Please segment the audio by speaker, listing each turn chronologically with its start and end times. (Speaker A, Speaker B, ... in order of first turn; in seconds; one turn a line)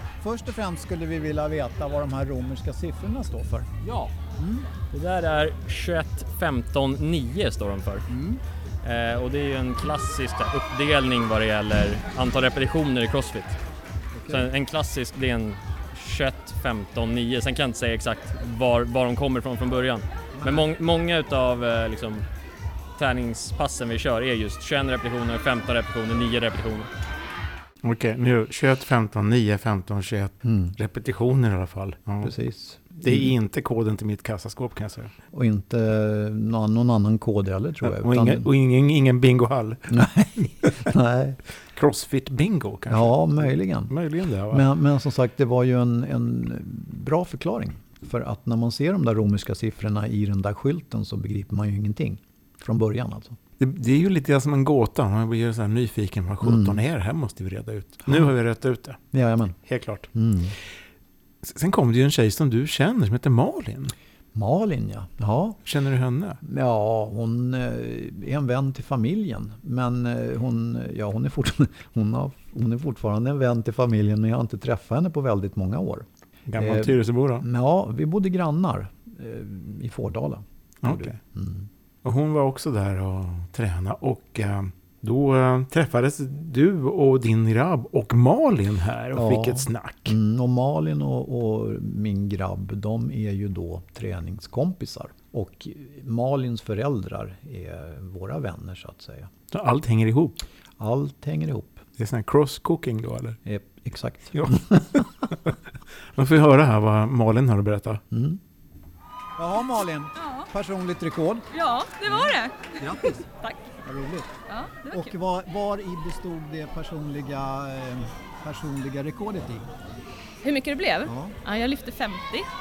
Speaker A: 0.2-3.7
Speaker B: 3.8-4.1
Speaker A: 4.4-4.7
Speaker B: 4.9-8.1
Speaker A: 8.1-8.4
Speaker B: 8.8-13.6
Speaker A: 14.1-14.5
Speaker B: 14.3-22.2
Speaker A: 20.4-20.7
Speaker B: 23.0-26.9
Speaker C: 27.8-32.3
Speaker D: 30.4-30.7
Speaker D: 32.2-33.3
Speaker C: 32.9-35.1
Speaker D: 35.3-38.5
Speaker C: 37.8-40.9
Speaker D: 39.9-41.4
Speaker C: 41.7-44.7
Speaker D: 42.9-43.9
Speaker D: 44.5-53.4
Speaker C: 53.6-59.0
Speaker D: 56.4-56.8
Speaker D: 58.0-58.3
Speaker D: 59.1-59.6
Speaker C: 59.6-60.1
Speaker D: 60.1-60.5
Speaker C: 61.4-63.9
Speaker D: 64.3-65.6
Speaker C: 65.6-66.4
Speaker D: 66.4-76.0
Speaker C: 76.5-77.4
Speaker D: 76.6-81.7
Speaker C: 80.8-81.2
Speaker C: 82.0-90.2
Speaker D: 89.1-99.3
Speaker C: 99.5-100.4
Speaker D: 100.8-101.8
Speaker C: 102.0-103.4
Speaker D: 103.4-105.1
Speaker C: 104.3-105.6
Speaker C: 106.1-108.0
Speaker D: 108.1-108.4
Speaker A: 109.4-111.5
Speaker E: 110.2-110.5
Speaker E: 111.5-113.7
Speaker A: 112.0-113.2
Speaker A: 113.8-114.3
Speaker E: 114.5-115.1
Speaker A: 114.8-119.7
Speaker E: 120.4-122.5
Speaker A: 121.0-121.4